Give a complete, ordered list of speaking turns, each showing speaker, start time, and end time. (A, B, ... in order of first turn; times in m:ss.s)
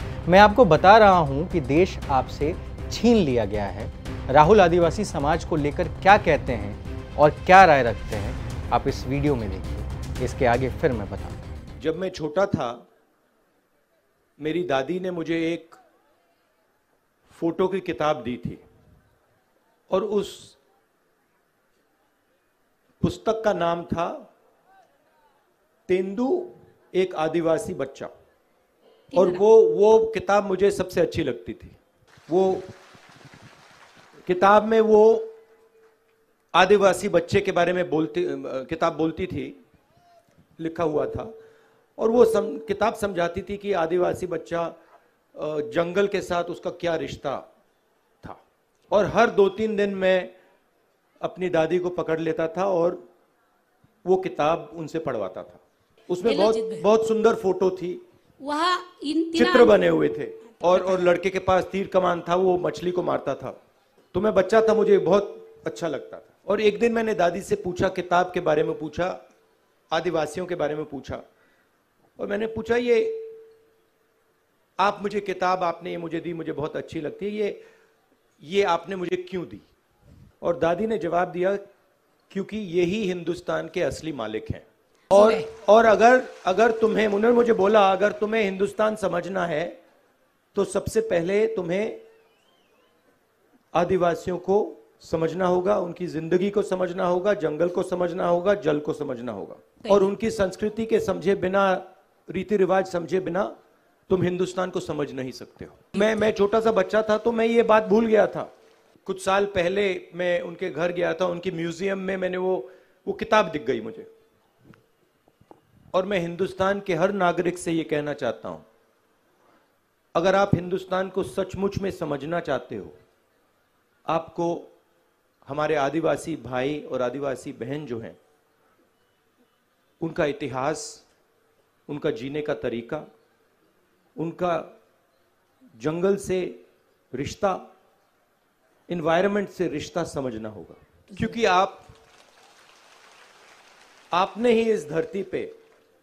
0:00.2-0:11.5 A
0:11.8-0:12.8 B
0:14.4-0:15.8 B
0:17.3-0:18.6 B
0:19.9-0:20.6 B
0:23.0-0:24.2 B
0:25.9-0:28.1 B
0:29.1-0:29.4 C
0:29.1-0:31.8 B
0:32.3-0:32.7 B
0:34.2-0:35.3 B
0:36.5-0:39.5 B
0:40.6-0:41.3 B
0:42.0-0:44.8 B
0:45.3-0:47.5 B
0:48.2-0:50.3 B
0:51.2-0:53.0 B
0:54.0-0:58.0 B
0:56.2-0:56.9 C
0:58.4-0:59.8 C
0:59.4-1:03.6 B
1:00.6-1:01.1 C
1:04.1-1:09.2 B
1:09.9-1:11.2 B
1:12.2-1:13.3 B
1:14.8-1:17.6 B
1:18.4-1:19.7 B
1:20.4-1:21.6 B
1:22.3-1:29.8 B
1:25.1-1:25.4 C
1:30.5-1:32.0 B
1:33.7-1:43.5 B
1:44.1-1:48.5 B
1:49.0-1:54.1 B
1:55.9-1:58.6 B
2:00.1-2:03.0 B
2:04.1-2:04.7 B
2:05.4-2:08.2 B
2:10.0-2:11.0 B
2:11.9-2:13.1 B
2:14.2-2:14.7 B
2:15.8-2:17.6 B
2:18.9-2:21.9 B
2:24.1-2:25.5 B